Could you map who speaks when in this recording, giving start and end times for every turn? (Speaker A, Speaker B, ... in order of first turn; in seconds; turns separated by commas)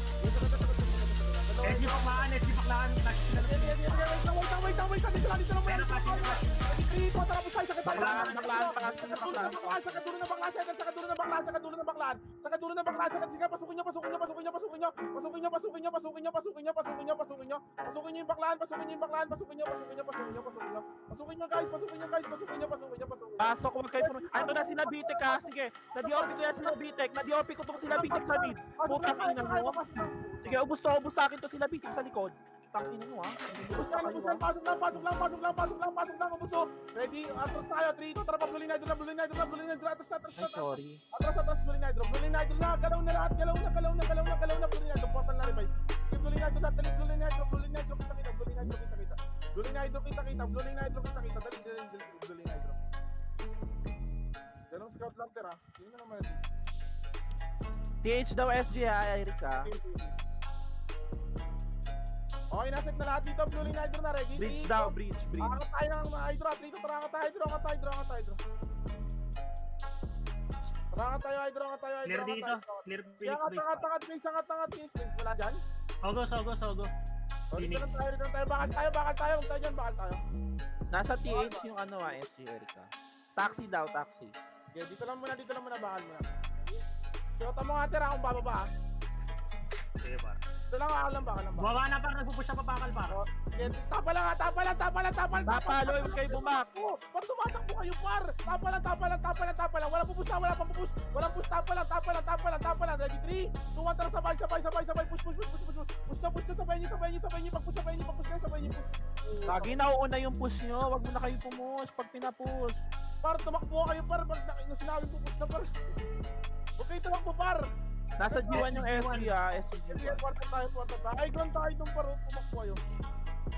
Speaker A: 0.2-2.3, Speaker B: 1.6-4.1, Speaker A: 3.4-26.8, Speaker B: 5.7-6.6, Speaker C: 7.8-9.9, Speaker B: 7.9-8.7, Speaker C: 23.4-29.8, Speaker A: 27.7-30.8, Speaker C: 30.4-34.4, Speaker A: 33.7-52.8, Speaker C: 40.4-41.0, Speaker A: 54.7-56.4, Speaker C: 58.0-59.7, Speaker A: 59.6-60.1, Speaker A: 62.5-68.4, Speaker C: 64.3-65.6, Speaker A: 70.9-75.6, Speaker B: 72.0-73.9, Speaker B: 76.0-76.9, Speaker A: 77.5-80.2, Speaker B: 77.5-78.0, Speaker C: 80.9-84.3, Speaker A: 81.2-82.1, Speaker A: 84.7-86.8, Speaker A: 87.3-88.7, Speaker B: 90.0-90.4, Speaker A: 90.7-91.8, Speaker B: 91.6-93.2, Speaker A: 93.1-109.8, Speaker C: 95.5-96.7, Speaker C: 109.5-112.8, Speaker A: 113.2-115.8, Speaker A: 116.8-117.7, Speaker C: 118.2-120.2, Speaker A: 118.2-118.8, Speaker B: 118.5-119.3, Speaker A: 119.9-122.8